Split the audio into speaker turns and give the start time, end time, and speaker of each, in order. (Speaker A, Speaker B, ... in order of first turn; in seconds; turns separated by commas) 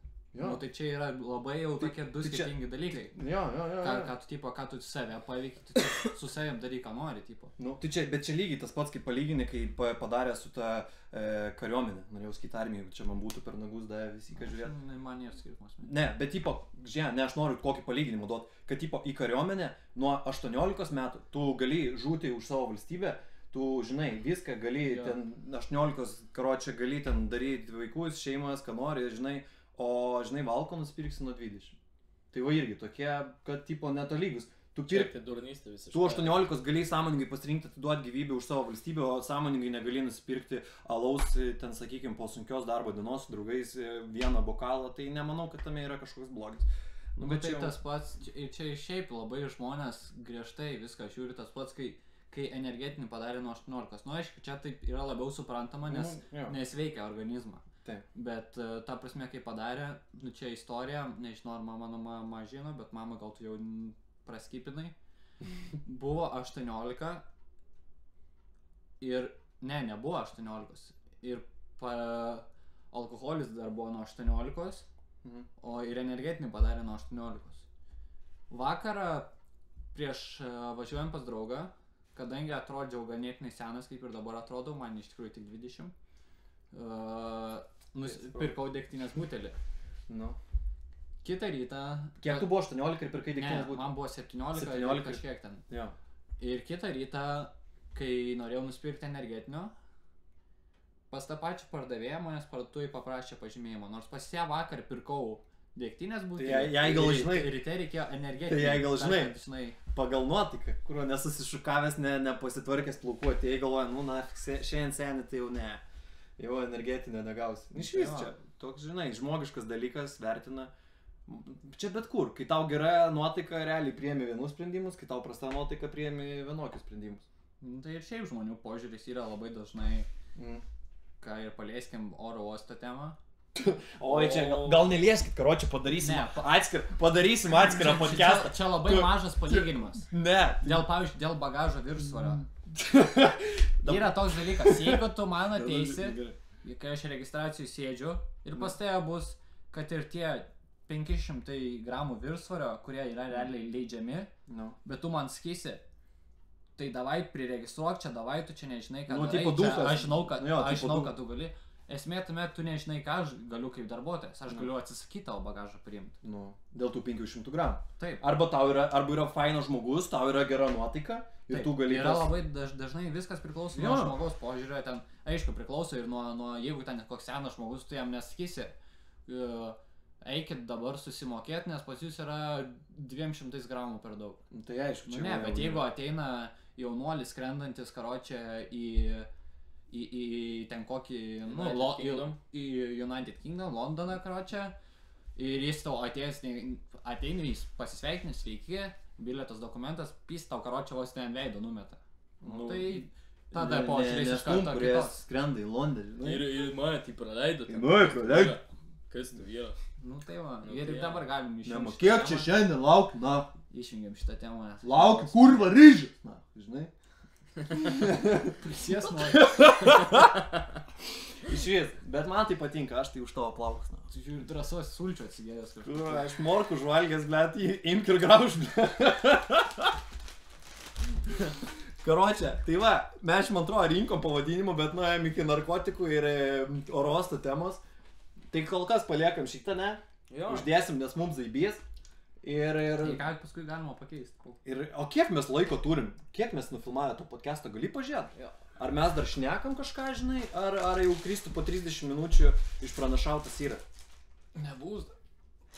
Speaker A: 0.3-0.6, Speaker B: 0.4-3.1, Speaker A: 1.8-4.1, Speaker B: 3.8-7.5, Speaker A: 7.6-14.7, Speaker B: 14.3-15.9, Speaker A: 15.8-31.8, Speaker B: 24.9-25.1, Speaker A: 32.3-35.1, Speaker C: 34.9-36.5, Speaker A: 35.9-47.8, Speaker B: 47.2-57.6, Speaker A: 55.9-56.5, Speaker B: 58.1-64.9, Speaker B: 65.8-67.2, Speaker B: 69.0-74.8, Speaker B: 75.6-77.7, Speaker B: 78.5-79.3, Speaker B: 79.9-85.9, Speaker B: 86.7-89.6, Speaker A: 88.1-88.5, Speaker A: 90.1-90.4, Speaker B: 91.2-92.5, Speaker A: 92.2-93.9, Speaker B: 93.3-95.6, Speaker A: 94.5-96.0, Speaker B: 96.4-99.7, Speaker B: 101.1-109.8, Speaker A: 106.4-107.6, Speaker A: 108.5-109.3, Speaker A: 109.9-115.8, Speaker A: 116.4-120.7, Speaker B: 117.7-118.3, Speaker A: 121.3-127.3, Speaker B: 127.6-130.1, Speaker A: 130.3-130.7, Speaker B: 131.2-133.2, Speaker A: 133.6-140.9, Speaker C: 134.0-135.0, Speaker B: 136.0-136.5, Speaker B: 137.5-140.1, Speaker B: 140.6-142.4, Speaker A: 142.1-146.4, Speaker B: 143.8-154.3, Speaker A: 154.5-154.8, Speaker B: 154.8-155.8, Speaker B: 156.8-166.2, Speaker A: 159.1-161.1, Speaker A: 166.2-172.3, Speaker B: 171.5-178.7, Speaker A: 173.7-174.2, Speaker B: 179.3-184.4, Speaker A: 184.5-185.9, Speaker B: 185.1-189.3, Speaker B: 189.9-194.7, Speaker C: 191.5-192.4, Speaker B: 195.4-205.2, Speaker A: 202.4-206.5, Speaker C: 206.2-209.8, Speaker A: 207.7-208.6, Speaker B: 210.0-212.5, Speaker C: 210.6-211.3, Speaker A: 211.7-213.5, Speaker B: 213.7-215.7, Speaker A: 214.8-216.9, Speaker A: 217.7-218.6, Speaker B: 218.4-220.0, Speaker A: 219.3-220.3, Speaker A: 221.4-224.1, Speaker B: 224.1-226.3, Speaker A: 225.8-230.0, Speaker A: 231.4-237.8, Speaker A: 238.5-241.8, Speaker C: 240.3-240.7, Speaker A: 242.4-243.2, Speaker B: 243.0-244.6, Speaker A: 244.7-253.8, Speaker B: 254.6-255.1